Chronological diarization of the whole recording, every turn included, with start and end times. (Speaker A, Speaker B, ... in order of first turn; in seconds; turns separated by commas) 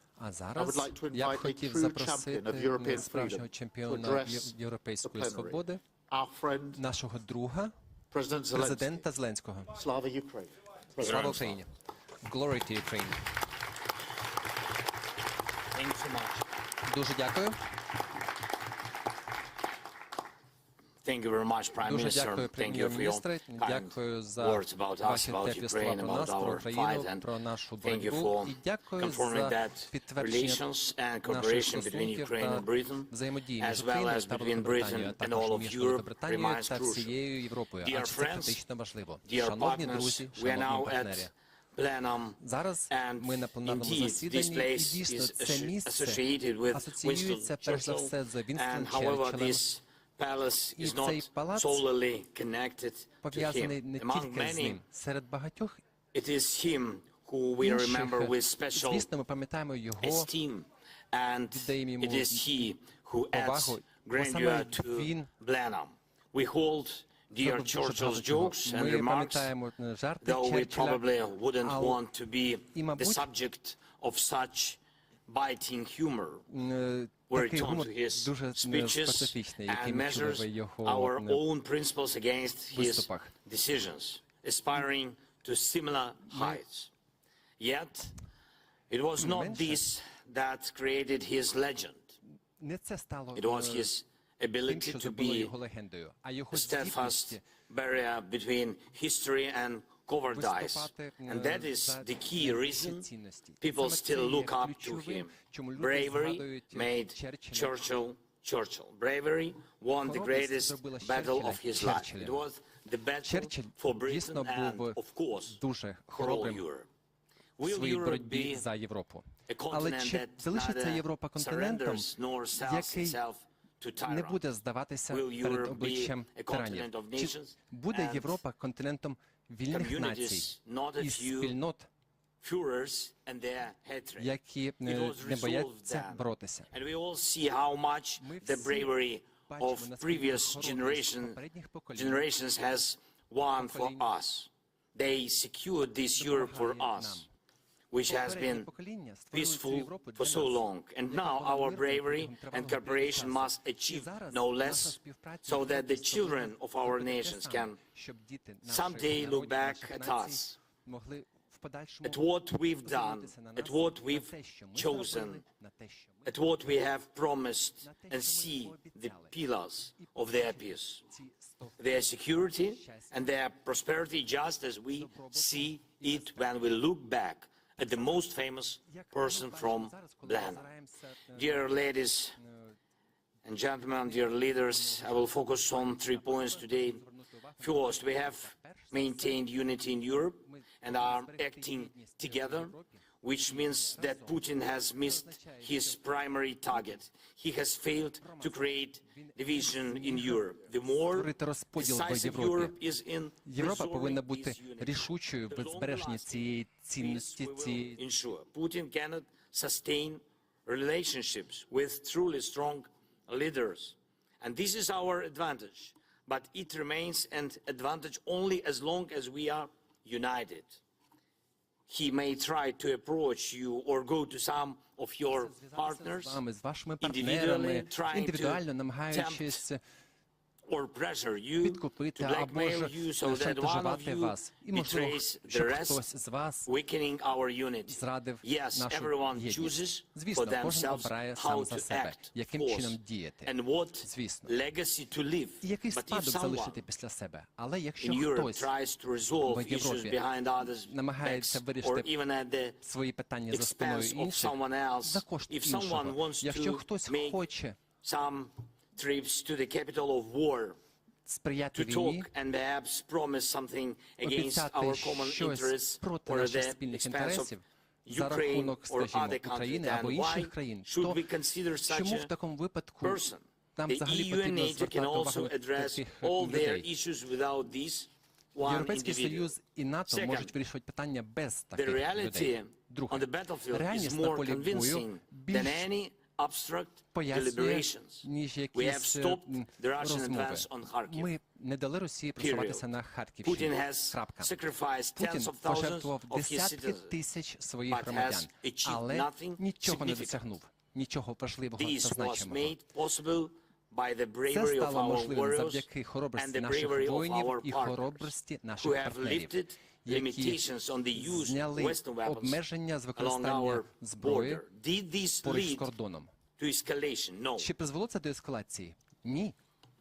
Speaker A: 0.2-5.8, Speaker B: 0.6-6.8, Speaker A: 6.8-7.7, Speaker B: 8.1-9.1, Speaker A: 8.5-9.8, Speaker B: 9.7-11.3, Speaker A: 11.0-11.7, Speaker C: 11.0-11.6, Speaker A: 12.2-13.2, Speaker C: 15.7-16.4, Speaker A: 16.9-17.6, Speaker C: 21.0-27.3, Speaker A: 21.9-30.6, Speaker C: 27.8-37.2, Speaker A: 31.2-41.3, Speaker C: 37.8-38.6, Speaker C: 39.2-54.8, Speaker A: 42.4-49.6, Speaker A: 50.8-51.8, Speaker A: 53.2-55.8, Speaker C: 56.1-59.1, Speaker A: 57.6-60.3, Speaker C: 60.0-69.5, Speaker A: 61.5-62.5, Speaker A: 63.3-65.3, Speaker A: 67.4-71.0, Speaker C: 70.2-76.5, Speaker A: 71.6-72.0, Speaker A: 72.7-73.3, Speaker A: 76.5-81.4, Speaker C: 77.3-86.9, Speaker A: 82.7-83.3, Speaker A: 86.3-86.6, Speaker C: 87.6-88.2, Speaker C: 88.9-92.1, Speaker A: 89.2-89.8, Speaker A: 92.6-93.9, Speaker C: 93.3-95.5, Speaker A: 94.7-97.4, Speaker C: 96.5-103.1, Speaker A: 100.3-107.8, Speaker C: 103.6-115.6, Speaker A: 110.0-112.4, Speaker A: 113.2-115.0, Speaker A: 115.5-116.7, Speaker C: 116.1-116.9, Speaker C: 117.6-118.7, Speaker A: 117.6-123.2, Speaker C: 119.5-124.4, Speaker A: 124.0-130.5, Speaker C: 125.1-128.4, Speaker C: 129.7-131.6, Speaker A: 131.0-131.9, Speaker C: 132.4-141.4, Speaker A: 134.2-136.7, Speaker A: 138.2-138.9, Speaker A: 139.5-142.3, Speaker C: 141.9-147.3, Speaker A: 143.6-144.1, Speaker A: 146.2-147.3, Speaker C: 147.9-148.7, Speaker A: 148.1-162.2, Speaker C: 149.3-157.8, Speaker C: 158.7-160.6, Speaker C: 162.0-165.4, Speaker A: 162.8-166.3, Speaker C: 166.3-171.0, Speaker A: 167.8-169.3, Speaker A: 170.0-172.1, Speaker C: 171.8-180.7, Speaker A: 172.7-173.4, Speaker A: 174.9-176.7, Speaker A: 178.9-181.7, Speaker C: 181.3-182.4, Speaker A: 182.4-182.8, Speaker C: 183.4-187.0, Speaker A: 184.1-189.4, Speaker C: 187.6-220.8, Speaker A: 190.4-196.1, Speaker A: 196.7-197.0, Speaker A: 198.2-202.8, Speaker A: 203.4-208.0, Speaker C: 221.9-226.4, Speaker A: 225.3-229.8, Speaker C: 227.0-229.6, Speaker C: 230.7-236.1, Speaker A: 231.6-236.7, Speaker C: 236.7-246.8, Speaker A: 237.9-244.5, Speaker A: 245.6-248.7, Speaker C: 248.0-252.8, Speaker A: 249.5-250.2, Speaker A: 250.9-252.1, Speaker A: 252.8-257.8, Speaker C: 253.5-257.4, Speaker C: 258.0-260.8, Speaker A: 261.3-262.3, Speaker C: 261.7-272.3, Speaker A: 264.2-271.2, Speaker A: 271.9-273.2, Speaker C: 273.0-279.6, Speaker A: 273.8-276.9, Speaker A: 278.6-285.9, Speaker C: 280.1-280.5, Speaker C: 281.7-291.3, Speaker A: 287.1-294.5, Speaker C: 292.4-292.9, Speaker C: 293.4-297.1, Speaker A: 295.2-302.8, Speaker C: 297.9-300.5, Speaker C: 301.8-312.6, Speaker A: 304.5-310.6, Speaker A: 311.2-314.6, Speaker C: 313.2-315.9, Speaker A: 315.4-316.3, Speaker C: 316.6-317.7, Speaker A: 317.6-319.6